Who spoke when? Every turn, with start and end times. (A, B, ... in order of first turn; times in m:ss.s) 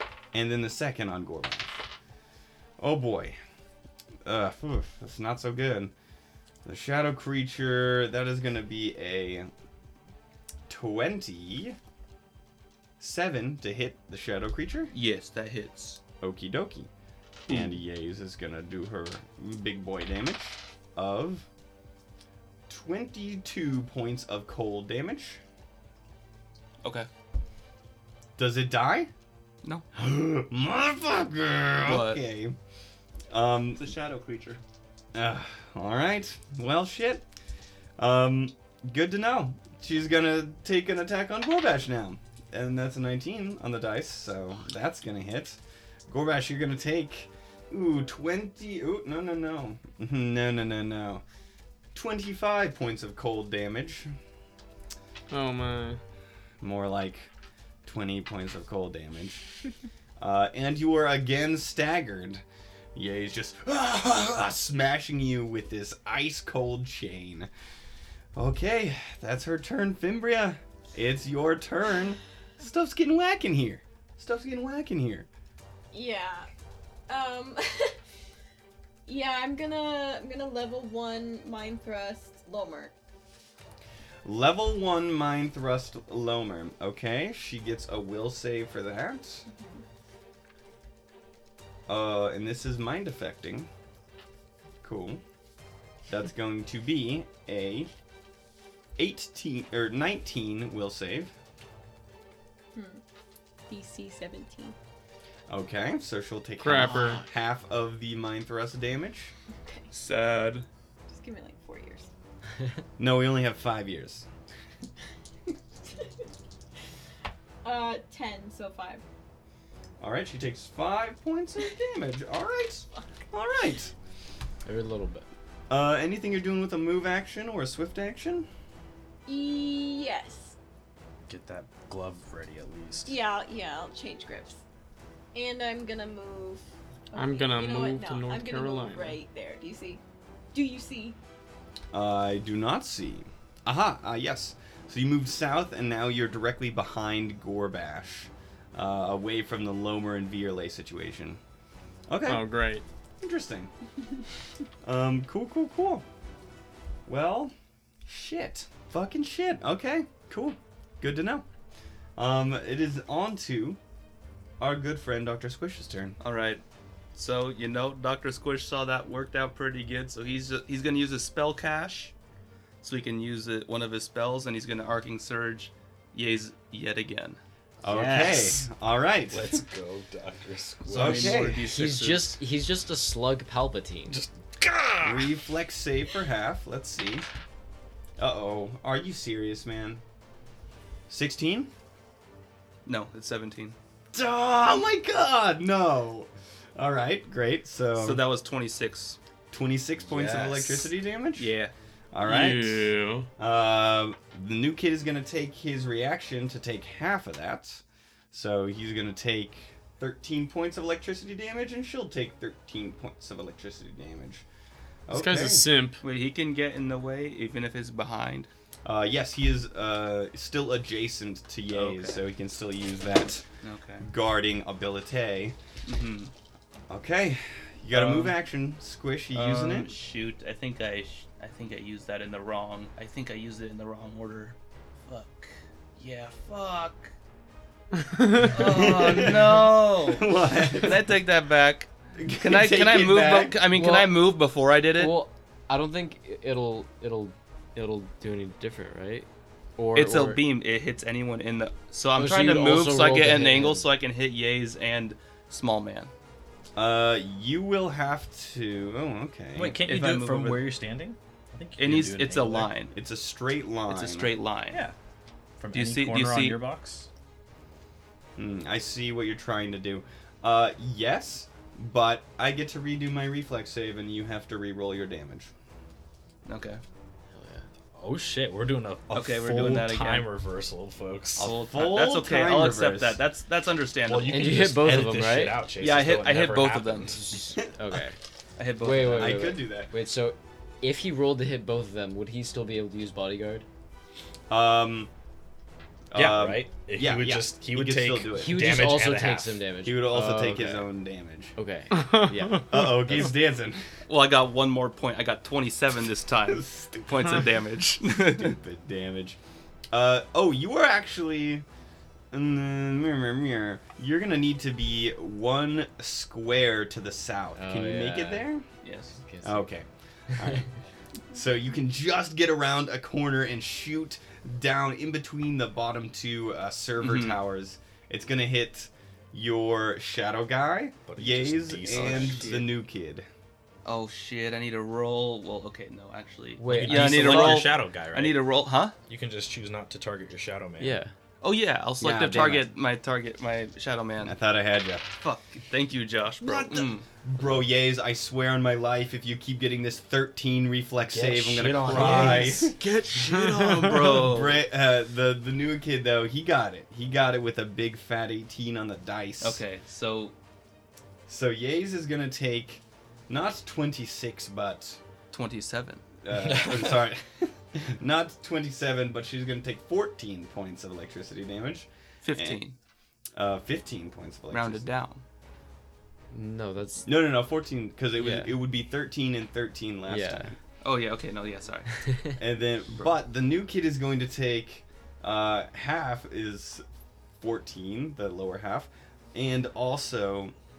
0:00.3-0:01.8 A
0:02.8-0:03.4 A
0:04.2-0:05.9 A
0:06.6-0:09.5 A
0:10.7-0:11.8 A
0:13.0-0:14.9 A
0:14.9-0:16.0 B
0:16.2-0:16.9 A
0:17.5-0:17.7 B
0:17.5-0:21.5 A
0:22.7-0:25.4 A
0:28.4-0:29.1 A
0:29.9-0:32.6 A
0:31.8-0:32.2 B
0:33.3-0:33.9 A
0:33.7-0:34.6 B
0:35.1-0:37.2 A
0:38.0-0:51.2 A
0:51.9-0:54.1 A
0:55.3-0:56.0 C
0:56.6-0:57.3 A
0:57.8-0:59.5 A
1:00.2-1:02.4 A
1:02.9-1:07.5 A
1:08.3-1:15.3 A
1:15.9-1:16.5 D
1:17.1-1:18.0 D
1:19.0-1:22.9 D
1:24.2-1:29.4 A
1:29.5-1:29.8 D
1:31.9-1:33.7 A
1:34.8-1:35.2 A
1:36.1-1:37.9 A
1:39.0-1:41.3 A
1:42.7-1:43.0 D
1:43.7-1:44.8 D
1:45.5-1:49.3 A
1:46.6-1:47.2 C
1:49.5-1:49.9 D
1:49.9-1:50.6 B
1:51.1-1:52.1 D
1:53.0-1:54.3 A
1:57.6-1:59.0 D
2:00.0-2:03.9 A
2:02.9-2:03.2 D
2:04.6-2:05.2 E
2:05.7-2:08.5 A
2:09.3-2:10.6 D
2:11.3-2:13.2 F
2:13.0-2:14.6 D
2:15.3-2:20.0 D
2:17.1-2:19.2 C
2:20.5-2:21.2 D
2:21.9-2:31.4 A
2:32.1-2:32.5 A
2:32.2-2:32.8 C
2:33.2-2:33.7 A
2:34.8-2:36.0 A
2:37.0-2:37.5 A
2:38.0-2:41.4 A
2:42.2-2:43.8 A
2:44.6-2:46.2 A
2:46.2-2:46.6 B
2:47.1-2:52.1 B
2:52.8-2:57.4 B
2:57.8-2:59.6 A
2:57.8-2:58.7 F
2:59.3-3:01.5 F
3:00.8-3:02.4 B
3:00.9-3:01.7 A
3:01.6-3:04.2 E
3:04.1-3:05.4 F
3:05.0-3:07.2 A
3:08.2-3:10.0 A
3:11.1-3:11.7 A
3:12.8-3:13.8 B
3:14.1-3:18.2 A
3:18.0-3:19.2 B
3:19.5-3:21.5 A
3:20.1-3:20.8 F
3:20.4-3:20.8 B
3:21.4-3:21.7 B
3:22.1-3:34.4 A
3:22.2-3:23.3 C
3:35.1-3:35.7 A
3:35.1-3:36.0 C
3:36.0-3:38.5 B
3:38.8-3:43.4 A
3:41.7-3:42.2 B
3:43.6-3:44.0 B
3:44.0-3:45.6 A
3:45.8-3:46.3 B
3:46.9-3:49.9 A
3:47.9-3:48.3 B
3:49.3-3:57.1 B
3:58.0-3:58.5 C
3:58.4-4:05.2 B
3:58.5-4:01.0 A
4:02.2-4:03.6 A
4:03.7-4:04.2 E
4:05.0-4:10.4 E
4:09.9-4:16.1 B
4:12.2-4:13.9 E
4:16.8-4:19.8 A
4:19.5-4:22.7 F
4:19.8-4:20.7 B
4:21.8-4:22.9 B
4:22.9-4:24.3 A
4:23.9-4:24.8 B
4:25.6-4:27.1 F
4:25.7-4:26.6 B
4:28.4-4:35.5 A
4:36.4-4:36.8 B
4:37.3-4:37.7 E
4:37.9-4:41.5 F
4:39.1-4:40.3 B
4:41.4-4:44.6 B
4:41.4-4:43.2 A
4:44.1-4:47.2 F
4:44.3-4:45.7 E
4:45.8-4:47.2 B
4:47.0-4:48.2 E
4:48.6-4:49.5 B
4:48.8-4:53.6 E
4:49.1-4:49.9 A
4:54.5-4:55.1 A
4:56.1-4:58.8 A
4:56.1-4:59.6 F
4:58.4-5:00.9 E
4:59.8-5:01.6 A
5:01.6-5:03.3 E
5:02.0-5:02.3 C
5:02.7-5:03.8 A
5:04.1-5:08.6 B
5:06.5-5:07.4 A
5:08.3-5:09.4 A
5:09.9-5:11.6 A
5:12.3-5:18.6 A
5:17.6-5:18.5 E
5:18.8-5:19.2 B
5:19.2-5:19.7 E
5:19.4-5:20.7 A
5:21.3-5:33.2 A
5:27.0-5:27.4 B
5:31.1-5:32.7 F
5:31.9-5:32.6 B
5:33.8-5:38.9 B
5:36.6-5:37.7 E
5:36.6-5:38.5 F
5:39.1-5:41.0 F
5:40.8-5:41.1 E
5:41.4-5:44.4 B
5:42.0-5:42.7 A
5:44.2-5:45.0 A
5:45.1-5:47.0 B
5:46.4-5:52.8 A
5:51.1-5:52.8 F
5:51.9-5:54.6 B
5:53.3-5:53.9 C
5:54.0-5:59.6 A
5:59.4-6:00.3 B
6:01.3-6:05.0 A
6:05.3-6:06.0 B
6:06.2-6:12.6 A
6:06.4-6:07.0 F
6:12.2-6:12.8 B
6:13.4-6:14.8 A
6:14.5-6:15.2 B
6:16.3-6:17.1 E
6:17.0-6:20.5 A
6:18.2-6:18.6 E
6:20.1-6:20.5 E
6:20.8-6:21.9 B
6:22.0-6:22.3 E
6:22.4-6:26.8 A
6:27.4-6:30.5 A